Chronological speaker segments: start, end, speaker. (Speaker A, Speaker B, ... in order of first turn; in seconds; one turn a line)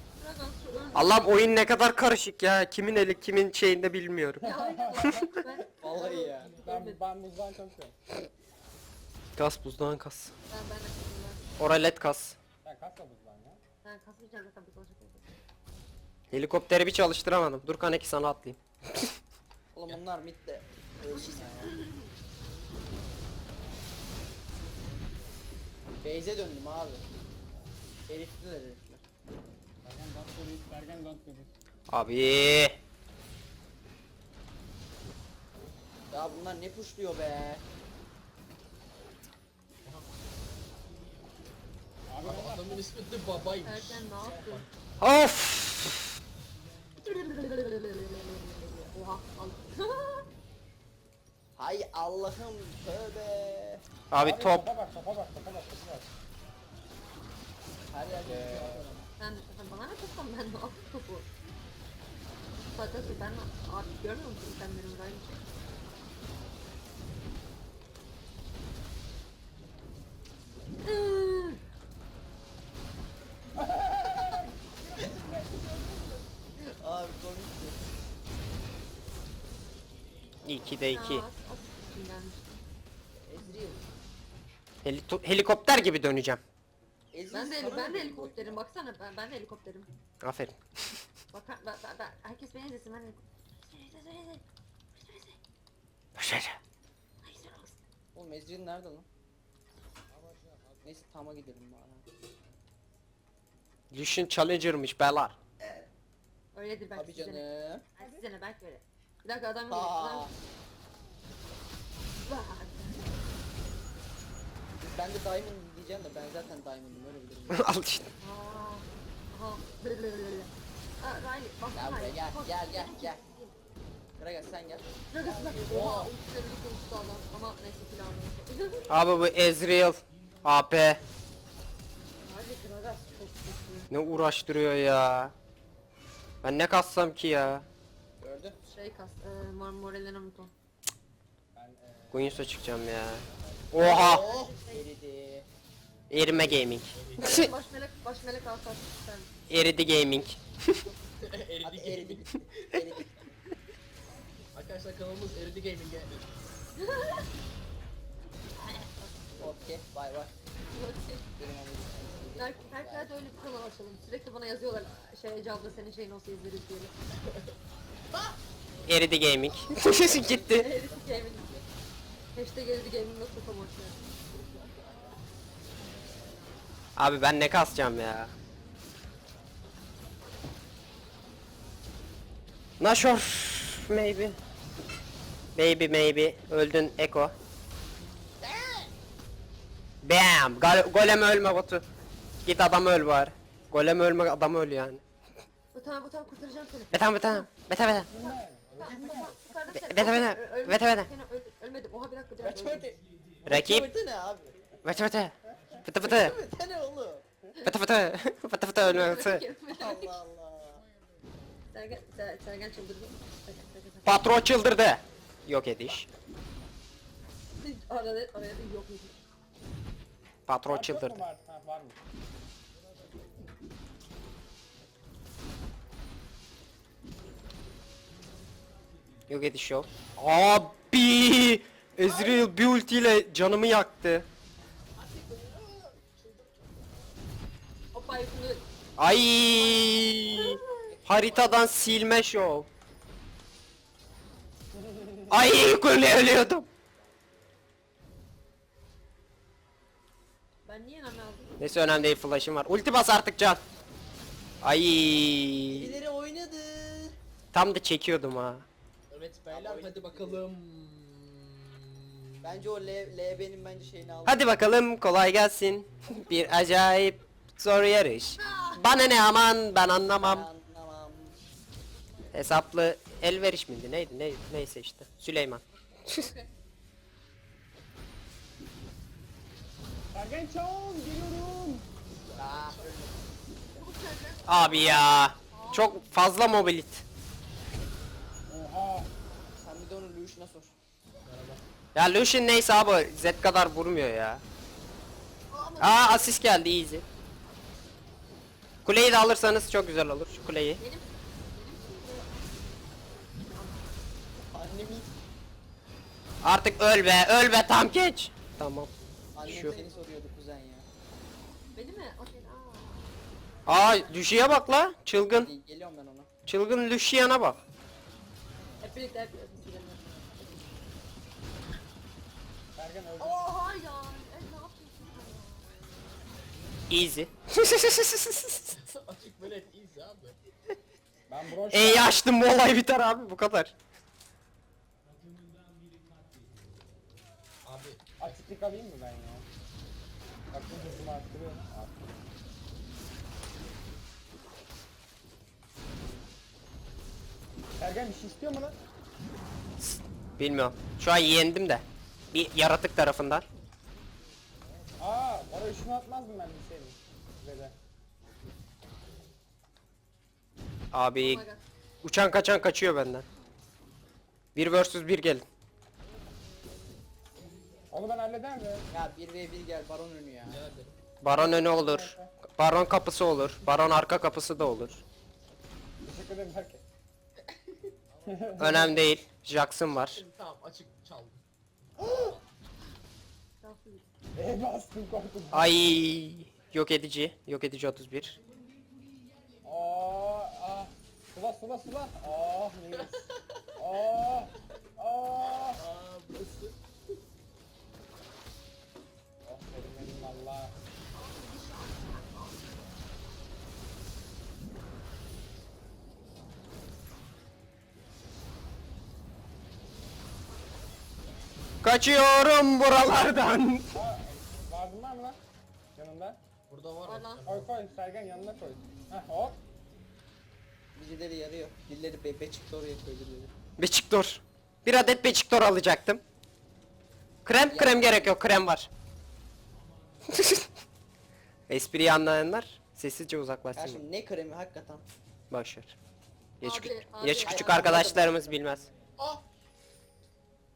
Speaker A: 0.2-1.4
Speaker B: 0.9-5.3
Speaker C: 4.4-5.4
Speaker A: 4.4-7.0
Speaker D: 5.8-6.6
Speaker C: 6.6-8.0
Speaker B: 9.4-10.3
Speaker A: 10.5-11.5
Speaker B: 11.6-12.4
Speaker C: 12.6-13.6
Speaker A: 13.8-15.2
Speaker B: 16.3-19.1
Speaker D: 19.7-21.8
Speaker A: 21.0-22.1
Speaker D: 26.0-27.1
Speaker D: 28.1-29.0
Speaker C: 29.8-31.5
Speaker B: 31.9-32.8
Speaker D: 36.1-37.6
Speaker C: 42.1-42.9
Speaker E: 42.2-44.7
Speaker A: 43.6-44.7
Speaker B: 45.0-46.0
Speaker A: 47.0-50.3
Speaker D: 51.6-53.8
Speaker B: 54.1-54.6
Speaker C: 54.2-56.1
Speaker D: 57.9-59.1
Speaker C: 58.2-58.9
Speaker A: 59.2-61.3
Speaker A: 62.7-65.4
Speaker A: 70.8-71.6
Speaker C: 73.5-76.3
Speaker D: 74.2-74.4
Speaker D: 76.6-77.8
Speaker B: 80.5-81.3
Speaker A: 80.9-82.5
Speaker D: 83.2-83.8
Speaker B: 84.8-86.4
Speaker D: 87.1-88.6
Speaker A: 87.3-89.9
Speaker B: 90.2-90.6
Speaker A: 91.3-94.4
Speaker A: 94.9-95.4
Speaker B: 96.2-96.6
Speaker A: 97.2-97.8
Speaker D: 98.1-99.0
Speaker D: 100.8-102.0
Speaker B: 103.9-105.4
Speaker A: 106.5-110.3
Speaker D: 106.9-107.8
Speaker D: 109.7-110.3
Speaker A: 112.2-113.1
Speaker D: 114.8-117.7
Speaker B: 117.5-118.1
Speaker A: 118.2-123.5
Speaker D: 121.7-123.2
Speaker D: 124.2-126.1
Speaker A: 125.1-128.9
Speaker B: 128.9-131.0
Speaker A: 132.2-133.9
Speaker B: 133.9-135.3
Speaker B: 136.4-137.6
Speaker D: 138.2-138.6
Speaker A: 138.6-140.5
Speaker C: 141.5-142.5
Speaker B: 142.1-144.2
Speaker D: 143.8-145.5
Speaker A: 143.8-144.8
Speaker B: 146.1-147.5
Speaker E: 146.8-147.5
Speaker A: 147.2-149.3
Speaker B: 149.5-150.8
Speaker E: 151.2-152.9
Speaker D: 151.6-153.2
Speaker E: 154.5-156.2
Speaker A: 156.8-157.3
Speaker A: 158.6-159.1
Speaker D: 159.4-160.3
Speaker A: 160.7-161.3
Speaker D: 161.4-163.1
Speaker A: 162.4-166.9
Speaker E: 167.2-167.5
Speaker B: 168.9-170.7
Speaker D: 169.8-171.6
Speaker A: 170.2-171.6
Speaker A: 172.3-174.5
Speaker B: 177.0-178.3
Speaker B: 182.8-184.4
Speaker B: 185.5-187.3
Speaker D: 188.4-188.9
Speaker B: 190.0-191.8
Speaker B: 192.4-195.0
Speaker A: 195.7-197.5
Speaker B: 196.9-198.1
Speaker C: 198.1-199.4
Speaker A: 198.1-202.9
Speaker D: 198.8-199.4
Speaker B: 199.7-201.1
Speaker D: 202.4-204.5
Speaker B: 203.5-203.9
Speaker B: 204.8-206.4
Speaker D: 206.0-207.2
Speaker B: 207.6-209.4
Speaker A: 208.8-210.1
Speaker D: 209.7-210.8
Speaker A: 211.7-214.2
Speaker B: 214.0-216.1
Speaker A: 217.6-219.2
Speaker B: 220.5-221.2
Speaker C: 220.7-222.0
Speaker B: 229.3-234.3
Speaker E: 235.0-236.8
Speaker A: 237.9-238.6
Speaker B: 239.0-242.7
Speaker A: 239.5-241.0
Speaker D: 239.9-242.0
Speaker C: 244.7-245.4
Speaker B: 245.3-246.7
Speaker A: 250.6-251.6
Speaker B: 251.6-253.6
Speaker B: 254.6-256.0
Speaker D: 255.7-257.1
Speaker B: 257.5-258.6
Speaker E: 259.1-262.7
Speaker D: 259.5-260.4
Speaker D: 262.4-264.6
Speaker B: 264.2-270.5
Speaker A: 268.4-268.9
Speaker D: 270.2-271.4
Speaker B: 272.3-276.3
Speaker A: 276.0-276.5
Speaker C: 280.1-281.9
Speaker E: 282.2-283.2
Speaker D: 282.4-282.9
Speaker A: 283.7-286.1
Speaker B: 284.5-287.0
Speaker C: 288.5-289.1
Speaker D: 289.6-290.8
Speaker E: 291.2-291.6
Speaker B: 291.9-294.4
Speaker A: 295.5-296.4
Speaker B: 295.8-297.0
Speaker B: 298.9-300.8
Speaker A: 300.8-304.0
Speaker D: 304.4-305.1
Speaker B: 306.4-308.9
Speaker D: 309.4-310.9
Speaker B: 309.4-309.8
Speaker A: 309.5-309.9
Speaker A: 311.8-313.2
Speaker B: 313.7-315.5
Speaker A: 313.7-314.1
Speaker D: 315.4-316.3
Speaker B: 316.5-317.6
Speaker A: 318.8-320.6
Speaker C: 322.8-323.5
Speaker A: 323.2-325.9
Speaker B: 326.9-328.8
Speaker E: 328.7-330.4
Speaker C: 331.3-332.1
Speaker B: 331.7-333.7
Speaker E: 337.6-338.0
Speaker C: 338.2-339.4
Speaker C: 340.5-342.1
Speaker C: 347.8-348.8
Speaker B: 349.8-353.4
Speaker C: 355.0-357.8
Speaker B: 360.9-361.4
Speaker A: 361.2-361.6
Speaker B: 362.0-363.2
Speaker B: 364.5-365.4
Speaker C: 367.9-368.9
Speaker D: 368.9-370.6
Speaker E: 370.5-370.9
Speaker B: 371.2-375.0
Speaker C: 371.2-372.3
Speaker C: 376.0-376.8
Speaker C: 378.2-378.9
Speaker B: 378.6-380.2
Speaker E: 380.0-381.4
Speaker E: 382.0-382.4
Speaker C: 382.0-382.3
Speaker A: 383.6-384.1
Speaker C: 384.4-385.7
Speaker B: 385.5-388.4
Speaker C: 389.6-395.8
Speaker E: 393.0-393.2
Speaker E: 395.6-396.7
Speaker C: 399.4-400.8
Speaker A: 401.1-402.8
Speaker B: 411.8-413.9
Speaker C: 413.9-415.4
Speaker C: 416.0-416.4
Speaker E: 416.7-417.7
Speaker A: 417.0-417.5
Speaker C: 417.4-419.6
Speaker D: 420.9-423.5
Speaker B: 423.8-426.2
Speaker B: 427.4-428.9
Speaker D: 427.6-428.3
Speaker B: 430.3-430.7
Speaker B: 431.7-434.0
Speaker D: 433.8-435.0
Speaker B: 435.5-435.9
Speaker A: 436.6-438.1
Speaker B: 436.6-438.9
Speaker D: 437.4-438.9
Speaker E: 439.2-439.4